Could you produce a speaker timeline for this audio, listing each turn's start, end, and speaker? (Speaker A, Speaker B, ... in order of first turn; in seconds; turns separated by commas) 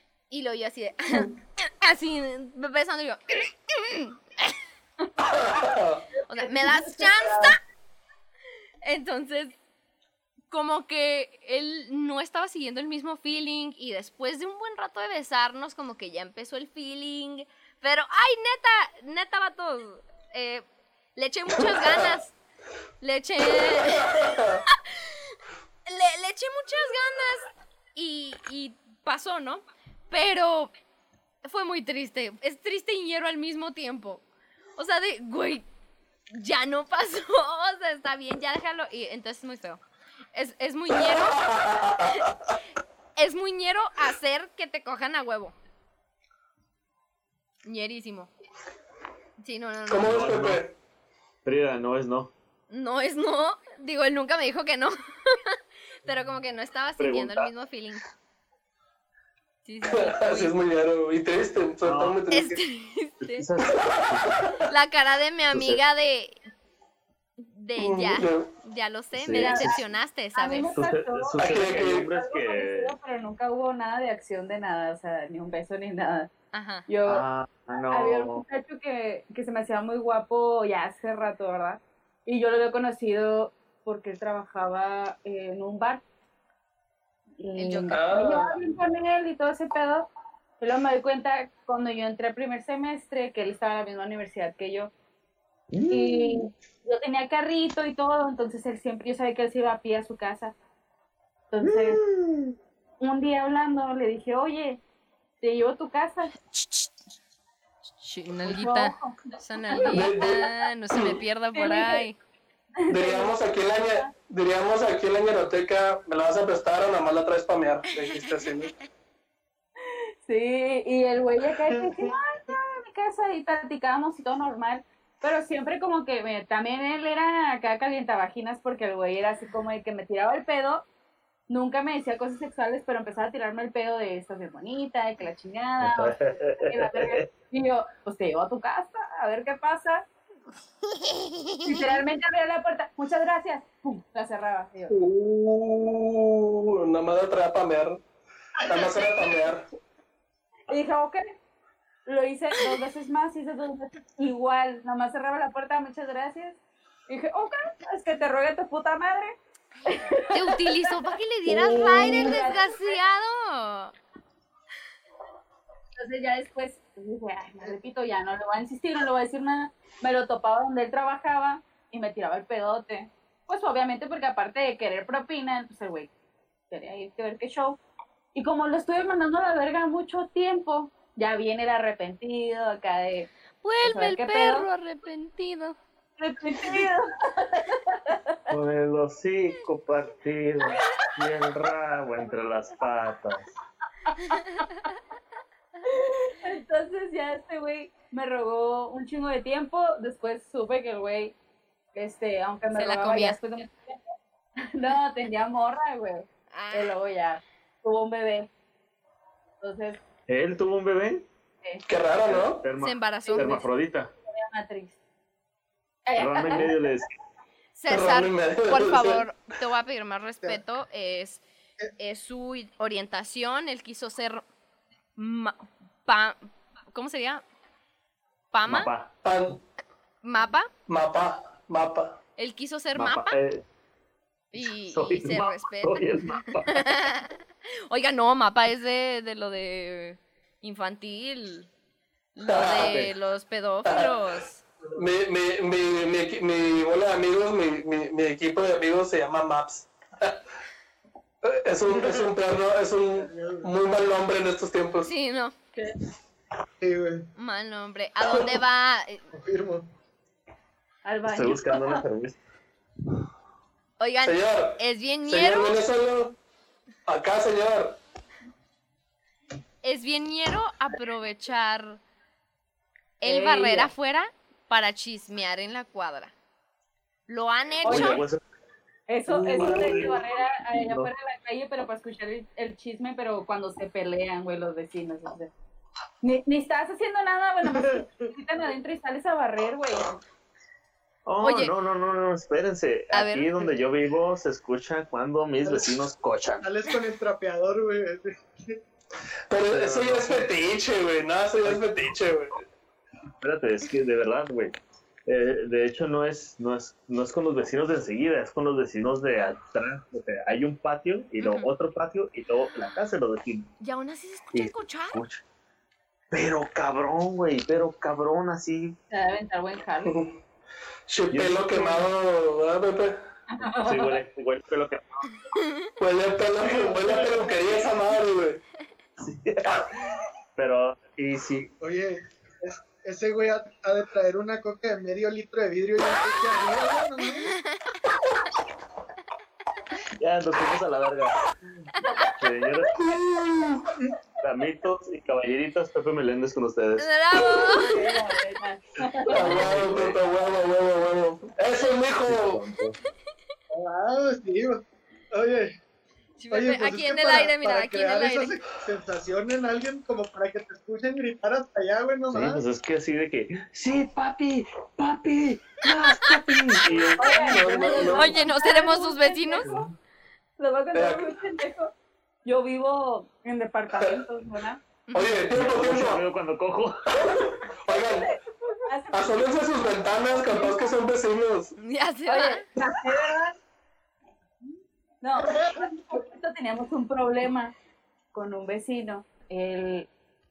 Speaker A: 0.3-4.5, Speaker B: 5.2-6.0, Speaker C: 6.2-7.5, Speaker A: 6.3-7.5, Speaker A: 8.8-9.5, Speaker A: 10.5-20.6, Speaker A: 21.1-22.4, Speaker A: 23.0-30.7, Speaker B: 23.6-24.6, Speaker A: 31.4-34.2, Speaker A: 34.8-35.6, Speaker A: 36.3-39.8, Speaker A: 40.3-41.9, Speaker B: 41.0-42.3, Speaker A: 43.1-45.5, Speaker A: 47.6-48.3, Speaker A: 49.4-50.2, Speaker B: 49.9-50.7, Speaker D: 50.0-50.6, Speaker D: 51.4-52.3, Speaker A: 52.7-58.0, Speaker D: 57.0-57.5, Speaker A: 59.6-60.5, Speaker B: 59.9-62.6, Speaker D: 61.8-62.2, Speaker A: 62.3-63.5, Speaker D: 63.2-64.4, Speaker A: 64.7-66.4, Speaker D: 65.5-65.8, Speaker A: 67.4-70.7, Speaker B: 67.8-68.5, Speaker D: 69.1-69.8, Speaker C: 69.4-69.8, Speaker C: 70.3-76.3, Speaker D: 70.6-73.0, Speaker B: 71.4-72.1, Speaker A: 76.5-76.9, Speaker C: 76.9-77.2, Speaker D: 77.0-78.4, Speaker C: 77.9-86.0, Speaker C: 87.4-90.1, Speaker A: 87.5-88.0, Speaker B: 87.9-88.6, Speaker C: 90.6-94.9, Speaker D: 95.7-96.5, Speaker C: 95.9-100.5, Speaker C: 101.5-102.0, Speaker D: 101.6-102.5, Speaker C: 103.0-104.8, Speaker C: 105.4-106.3, Speaker A: 108.0-112.2, Speaker C: 108.4-109.2, Speaker C: 109.7-110.0, Speaker B: 109.9-111.2, Speaker C: 111.5-112.0, Speaker C: 112.8-114.1, Speaker B: 112.9-118.7, Speaker C: 119.9-130.8, Speaker E: 121.7-122.2, Speaker C: 131.5-140.1, Speaker D: 135.8-137.3, Speaker A: 141.0-142.0, Speaker C: 141.6-145.0, Speaker B: 144.9-148.0, Speaker B: 148.7-149.7, Speaker E: 148.7-149.0, Speaker C: 150.7-151.2, Speaker C: 152.1-163.0, Speaker A: 160.3-163.9, Speaker C: 165.9-176.1, Speaker C: 176.7-177.8, Speaker C: 178.3-183.3, Speaker A: 183.6-185.8, Speaker C: 183.8-184.7, Speaker C: 186.2-188.5, Speaker D: 188.5-193.5, Speaker C: 194.0-194.8, Speaker C: 195.8-201.3, Speaker C: 201.9-204.0, Speaker A: 202.7-203.4, Speaker C: 204.7-208.5, Speaker A: 206.5-206.9, Speaker C: 209.6-210.0, Speaker D: 210.3-211.3, Speaker B: 211.9-212.7, Speaker D: 212.2-214.1, Speaker A: 212.8-213.6, Speaker C: 213.2-213.7, Speaker C: 214.3-215.0, Speaker C: 216.1-216.7, Speaker D: 216.2-217.1, Speaker A: 217.8-221.4, Speaker B: 217.9-219.2, Speaker A: 222.0-224.4, Speaker A: 225.2-227.4, Speaker A: 228.5-228.9, Speaker D: 228.7-229.1, Speaker B: 229.2-229.6, Speaker A: 230.2-230.7, Speaker B: 230.9-232.2, Speaker A: 232.4-233.4, Speaker D: 232.9-233.7, Speaker A: 234.5-237.3, Speaker D: 234.5-236.9, Speaker A: 237.9-241.7, Speaker A: 242.3-244.6, Speaker B: 242.5-242.9, Speaker D: 242.7-243.1, Speaker B: 243.8-244.1, Speaker B: 244.9-250.4, Speaker B: 251.4-255.1, Speaker E: 251.9-252.2, Speaker E: 253.1-253.7, Speaker A: 255.0-255.6, Speaker E: 256.8-257.3, Speaker A: 257.4-259.3, Speaker E: 259.3-259.9, Speaker C: 261.0-262.0, Speaker D: 261.2-262.4, Speaker A: 264.0-265.8, Speaker B: 264.2-266.4, Speaker B: 267.1-268.0, Speaker A: 269.8-272.0, Speaker A: 273.2-276.3, Speaker C: 273.2-273.9, Speaker A: 277.3-278.2, Speaker C: 277.8-278.2, Speaker D: 277.8-278.4, Speaker C: 279.1-285.5, Speaker D: 279.3-281.1, Speaker C: 286.2-290.2, Speaker E: 287.7-288.3, Speaker D: 291.2-296.7, Speaker A: 291.4-291.7, Speaker A: 293.1-293.6, Speaker E: 295.6-296.0, Speaker E: 296.6-298.8, Speaker B: 299.5-302.6, Speaker D: 299.7-300.5, Speaker D: 301.6-302.6, Speaker D: 303.4-313.7, Speaker A: 311.4-311.7, Speaker A: 313.8-315.2, Speaker D: 314.5-315.4, Speaker D: 316.3-318.9, Speaker C: 319.1-320.2, Speaker B: 320.1-320.3, Speaker B: 321.1-323.2, Speaker D: 321.3-322.0, Speaker C: 323.5-324.2, Speaker D: 323.6-325.3, Speaker B: 326.0-328.6, Speaker E: 326.6-327.6, Speaker D: 329.2-331.7, Speaker E: 331.8-337.6, Speaker A: 337.4-337.8, Speaker D: 340.2-341.4, Speaker D: 342.4-343.0, Speaker B: 343.0-343.8, Speaker D: 344.4-347.1, Speaker A: 347.0-348.1, Speaker C: 347.7-349.7, Speaker B: 349.3-352.6, Speaker D: 349.3-350.2, Speaker D: 352.2-353.0, Speaker E: 353.7-355.7, Speaker A: 356.4-358.6, Speaker E: 356.5-362.6, Speaker D: 362.3-367.9, Speaker B: 366.8-368.4, Speaker C: 367.2-369.9, Speaker E: 367.5-368.3, Speaker A: 368.0-369.7, Speaker D: 369.6-369.9, Speaker C: 370.6-371.9, Speaker B: 370.9-371.3, Speaker C: 372.4-374.8, Speaker A: 375.1-375.5, Speaker B: 375.1-376.2, Speaker D: 375.5-377.3, Speaker B: 377.1-378.4, Speaker C: 377.9-379.5, Speaker B: 379.1-381.8, Speaker A: 381.8-382.6, Speaker C: 382.3-383.6, Speaker C: 385.2-387.7, Speaker E: 385.5-385.7, Speaker C: 388.3-390.1